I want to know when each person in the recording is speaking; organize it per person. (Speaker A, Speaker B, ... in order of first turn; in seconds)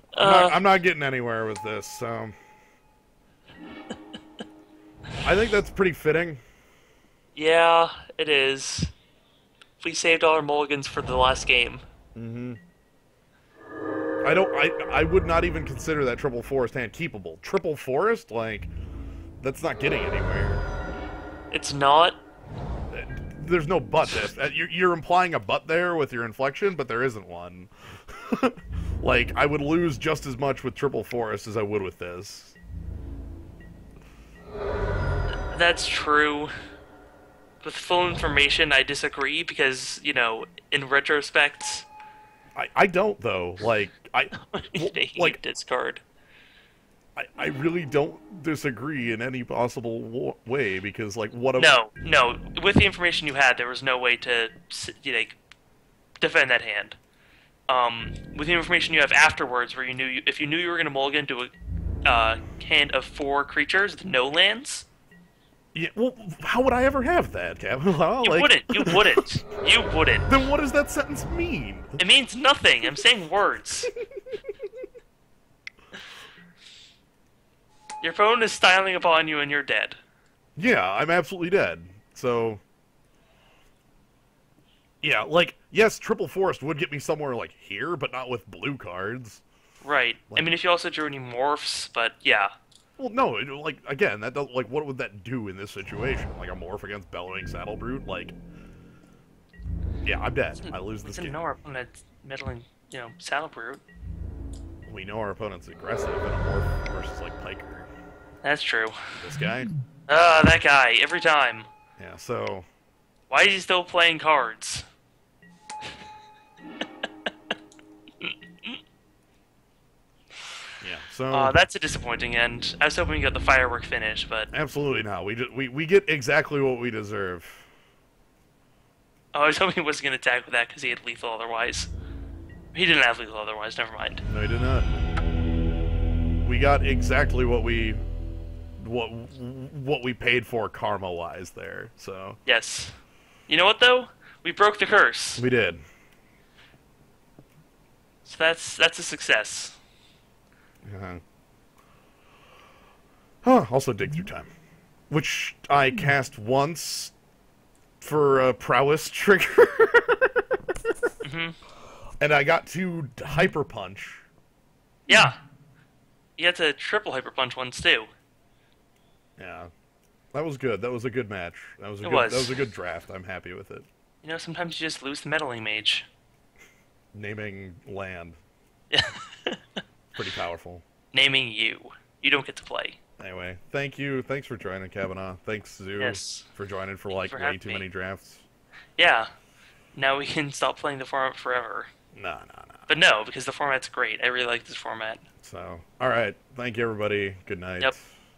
Speaker A: 0.1-0.6, 7.3-8.9, 9.8-11.8, 21.5-22.2, 35.5-36.5, 37.6-41.9, 44.5-46.0, 51.6-55.4, 56.2-57.0, 57.7-61.5, 62.0-64.9, 68.2-70.3, 72.0-73.9, 78.0-80.0, 89.8-92.5, 100.6-103.8, 108.4-109.0, 110.1-111.7, 113.3-114.8, 118.2-118.8, 121.3-124.5, 129.3-131.9, 132.7-134.2, 142.5-142.9, 143.5-145.4, 148.2-149.8, 161.2-161.6, 165.1-165.4, 166.4-168.1, 172.0-172.6, 174.2-176.1, 178.9-179.8, 181.1-183.0, 186.0-186.5, 187.1-187.8, 189.0-189.3, 189.9-191.9, 192.9-195.2
Speaker B: 0.2-2.4, 5.2-6.4, 12.2-12.6, 14.2-18.7, 19.4-20.6, 22.9-32.6, 42.5-45.4, 47.2-51.7, 65.7-69.2, 70.3-72.0, 80.6-82.6, 85.0-89.4, 93.0-98.4, 100.0-101.4, 104.9-107.9, 109.2-109.7, 112.0-112.7, 120.8-121.6, 124.5-127.7, 134.2-134.9, 136.4-138.0, 138.8-142.4, 145.4-145.8, 150.8-151.2, 153.4-154.5, 155.1-157.1, 158.0-160.4, 162.2-164.2, 169.4-169.7, 170.3-173.9, 177.1-178.4, 180.2-180.8, 183.2-188.5, 192.1-192.9, 195.4-198.1